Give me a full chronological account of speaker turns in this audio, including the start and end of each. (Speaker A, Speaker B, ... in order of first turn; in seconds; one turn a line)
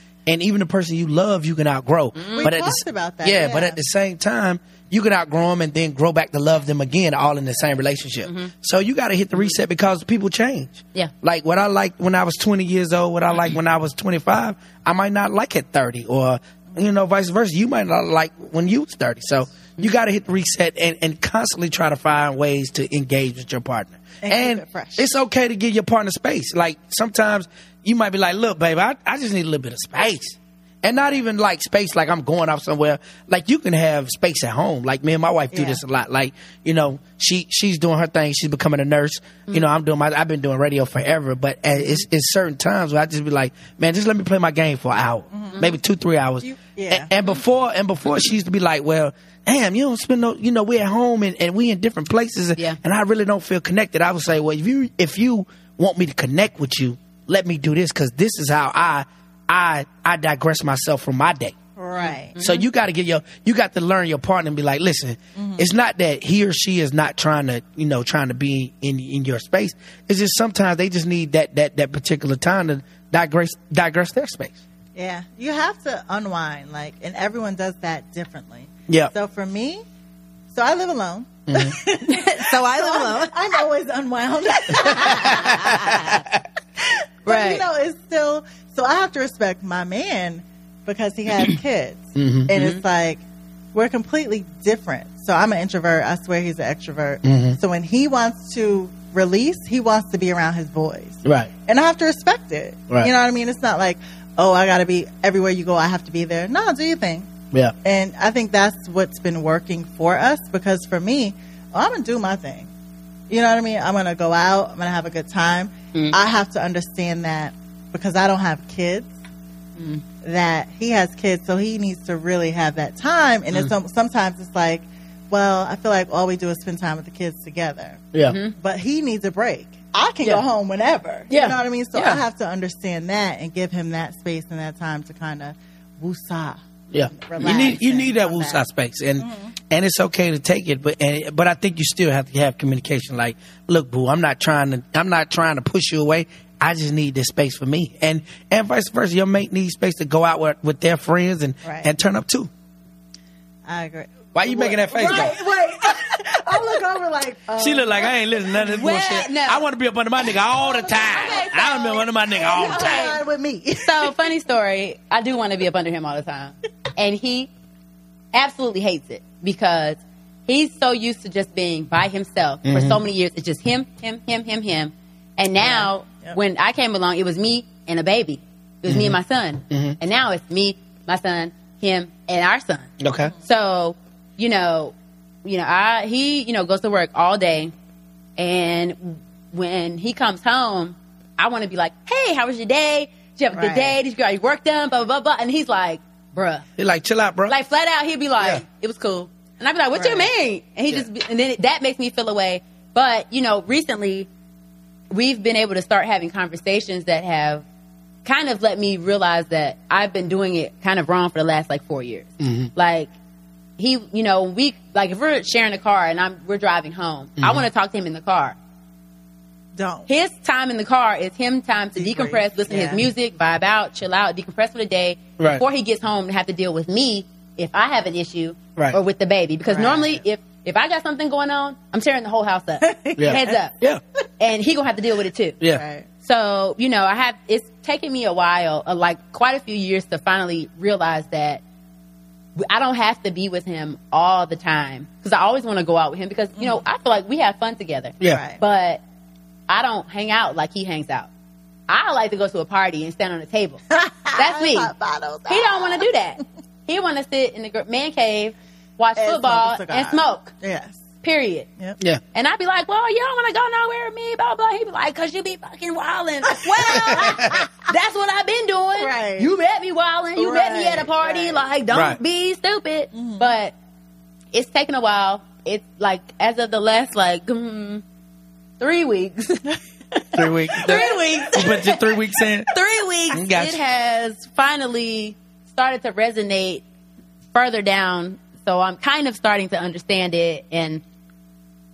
Speaker A: 0.2-61.6
Speaker B: 2.1-2.5
Speaker C: 2.3-3.8
Speaker B: 8.2-8.5
Speaker C: 24.2-25.1
Speaker C: 45.3-45.7
Speaker C: 46.4-47.1
Speaker C: 61.8-62.4
Speaker B: 62.0-62.6
Speaker A: 62.4-74.6
Speaker C: 65.3-65.7
Speaker C: 74.9-79.8
Speaker C: 80.5-86.1
Speaker A: 81.5-81.7
Speaker B: 82.0-83.3
Speaker B: 84.5-86.2
Speaker A: 84.8-86.0
Speaker C: 87.2-93.2
Speaker B: 87.3-87.6
Speaker A: 92.2-92.5
Speaker B: 92.5-92.8
Speaker C: 93.7-107.3
Speaker A: 97.2-97.6
Speaker A: 101.2-101.5
Speaker C: 107.8-112.7
Speaker C: 113.3-119.1
Speaker B: 119.8-120.0
Speaker C: 120.2-138.6
Speaker B: 128.3-128.5
Speaker B: 131.3-132.2
Speaker A: 136.9-152.5
Speaker C: 139.2-139.5
Speaker C: 151.6-151.9
Speaker C: 153.7-158.7
Speaker A: 154.3-155.4
Speaker A: 157.6-163.1
Speaker B: 158.7-159.6
Speaker C: 160.3-161.5
Speaker B: 161.0-163.2
Speaker C: 162.3-164.3
Speaker B: 163.8-167.5
Speaker B: 168.3-182.9
Speaker A: 172.6-173.0
Speaker C: 175.6-176.3
Speaker A: 178.9-179.2
Speaker A: 179.7-180.0
Speaker A: 183.0-183.3
Speaker B: 183.4-187.7
Speaker B: 188.4-196.6
Speaker C: 193.5-193.9
Speaker A: 196.8-197.5
Speaker B: 197.5-204.3
Speaker C: 199.9-200.3
Speaker B: 205.1-207.6
Speaker B: 208.2-213.1
Speaker A: 212.4-212.7
Speaker B: 213.8-218.6
Speaker A: 217.4-217.6
Speaker C: 219.8-220.1
Speaker B: 220.1-233.7
Speaker C: 221.9-223.0
Speaker C: 229.7-230.2
Speaker C: 232.8-233.6
Speaker A: 233.2-234.0
Speaker B: 234.4-235.6
Speaker C: 235.7-236.1
Speaker B: 236.2-241.6
Speaker B: 242.6-249.0
Speaker C: 248.3-248.6
Speaker B: 249.7-251.3
Speaker B: 251.9-253.8
Speaker C: 253.9-256.1
Speaker B: 254.3-254.9
Speaker B: 255.5-260.5
Speaker C: 259.2-261.0
Speaker B: 261.2-261.7
Speaker B: 262.3-273.7
Speaker C: 266.5-267.6
Speaker A: 267.0-267.6
Speaker C: 269.0-269.5
Speaker C: 270.4-271.7
Speaker A: 271.9-272.2
Speaker C: 273.1-273.5
Speaker B: 274.5-278.0
Speaker B: 278.8-286.8
Speaker A: 280.3-282.7
Speaker C: 280.9-281.2
Speaker A: 283.3-283.8
Speaker B: 287.5-291.0